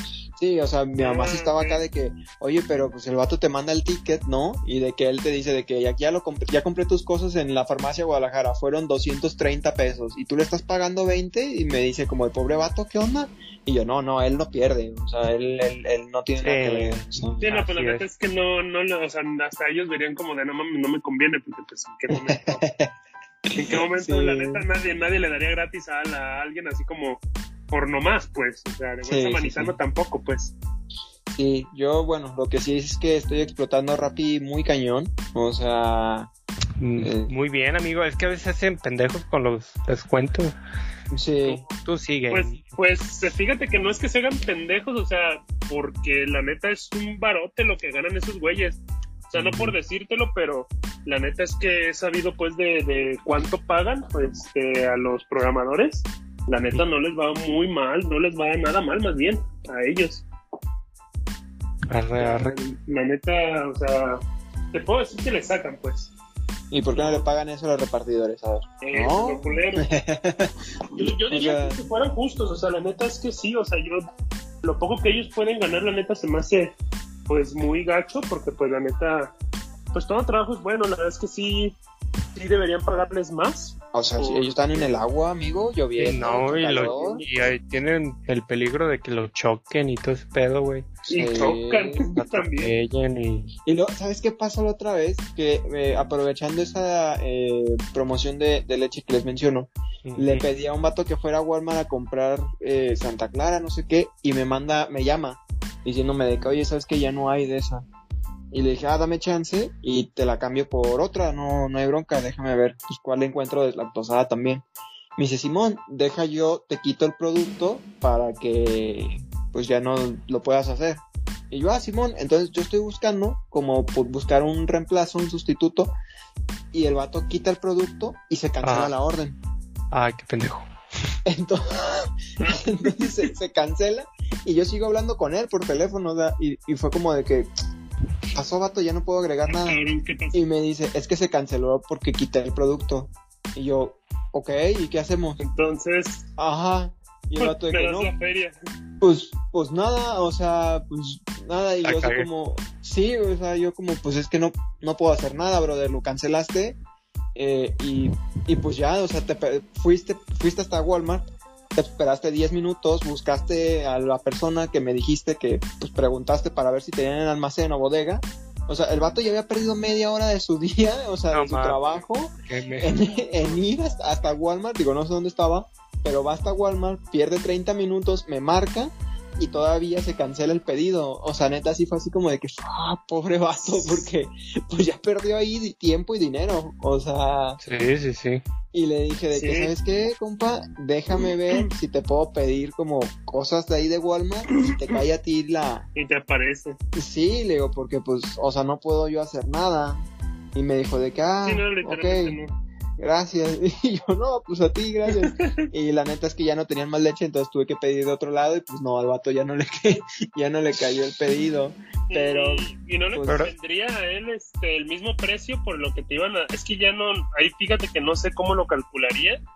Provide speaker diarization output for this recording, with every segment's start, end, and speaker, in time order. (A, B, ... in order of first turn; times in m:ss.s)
0:00.4-0:17.4 A
0:01.0-0:01.8 B
0:16.4-0:18.1 C
0:17.4-0:22.6 B
0:22.1-0:22.9 A
0:23.5-0:24.6 A
0:23.5-0:30.5 B
0:29.1-0:29.8 A
0:31.3-0:36.3 A
0:36.8-0:40.5 C
0:37.0-0:37.3 A
0:41.1-0:41.6 A
0:41.4-0:42.6 C
0:42.3-1:00.2 B
0:49.4-0:49.7 A
1:01.9-1:02.5 C
1:02.2-1:06.1 B
1:06.7-1:10.5 A
1:07.0-1:07.2 B
1:08.8-1:09.9 B
1:10.9-1:14.1 B
1:11.3-1:11.8 A
1:14.6-1:16.8 B
1:17.3-1:19.4 B
1:19.9-1:21.8 B
1:22.4-1:25.0 B
1:23.9-1:27.2 A
1:26.0-1:31.5 C
1:26.6-1:27.2 B
1:31.1-1:32.7 B
1:31.1-1:32.2 A
1:32.1-1:33.5 C
1:33.6-1:47.9 A
1:40.1-1:40.5 C
1:48.5-1:54.6 A
1:55.2-2:05.9 A
2:06.7-2:09.4 A
2:08.6-2:08.9 C
2:09.9-2:10.7 C
2:11.2-2:17.5 A
2:12.4-2:13.2 B
2:18.4-2:19.8 A
2:19.5-2:20.4 B
2:20.3-2:25.4 A
2:25.4-2:26.3 B
2:26.4-2:28.1 A
2:27.4-2:28.5 B
2:29.0-2:36.8 A
2:31.8-2:32.3 C
2:37.4-3:07.6 A
2:51.3-2:51.8 C
2:52.5-2:53.0 C
2:53.0-2:53.6 B
3:07.6-3:08.4 C
3:08.7-3:15.9 A
3:09.3-3:09.7 B
3:11.2-3:11.7 B
3:14.6-3:15.0 B
3:16.0-3:16.8 B
3:17.0-3:20.0 A
3:20.6-3:22.4 A
3:21.4-3:22.6 B
3:23.0-3:33.5 A
3:25.1-3:25.6 B
3:32.1-3:39.4 B
3:33.2-3:33.5 C